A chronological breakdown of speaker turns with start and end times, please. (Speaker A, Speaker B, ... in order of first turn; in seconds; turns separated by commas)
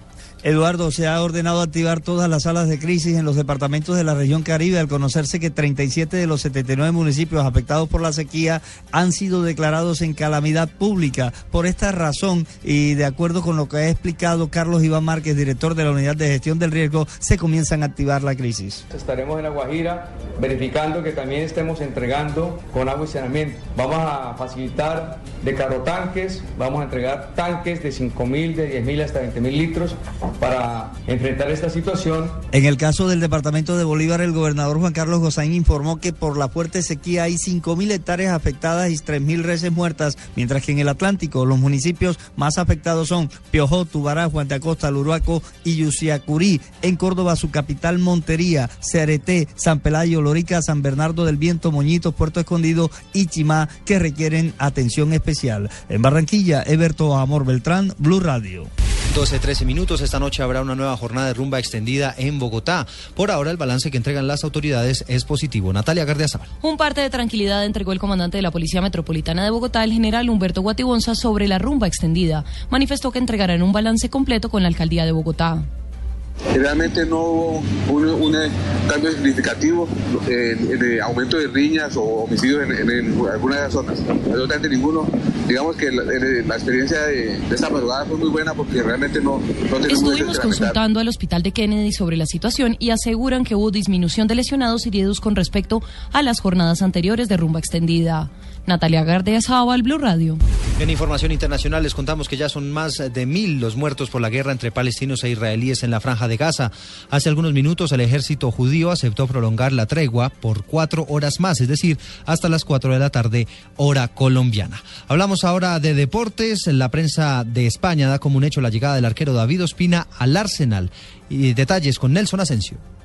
Speaker A: 0.4-18.8, Speaker B: 18.9-32.4, Speaker A: 32.5-58.7, Speaker C: 59.1-66.5, Speaker D: 66.6-75.7, Speaker E: 76.5-90.8, Speaker D: 89.8-100.4, Speaker C: 100.8-122.8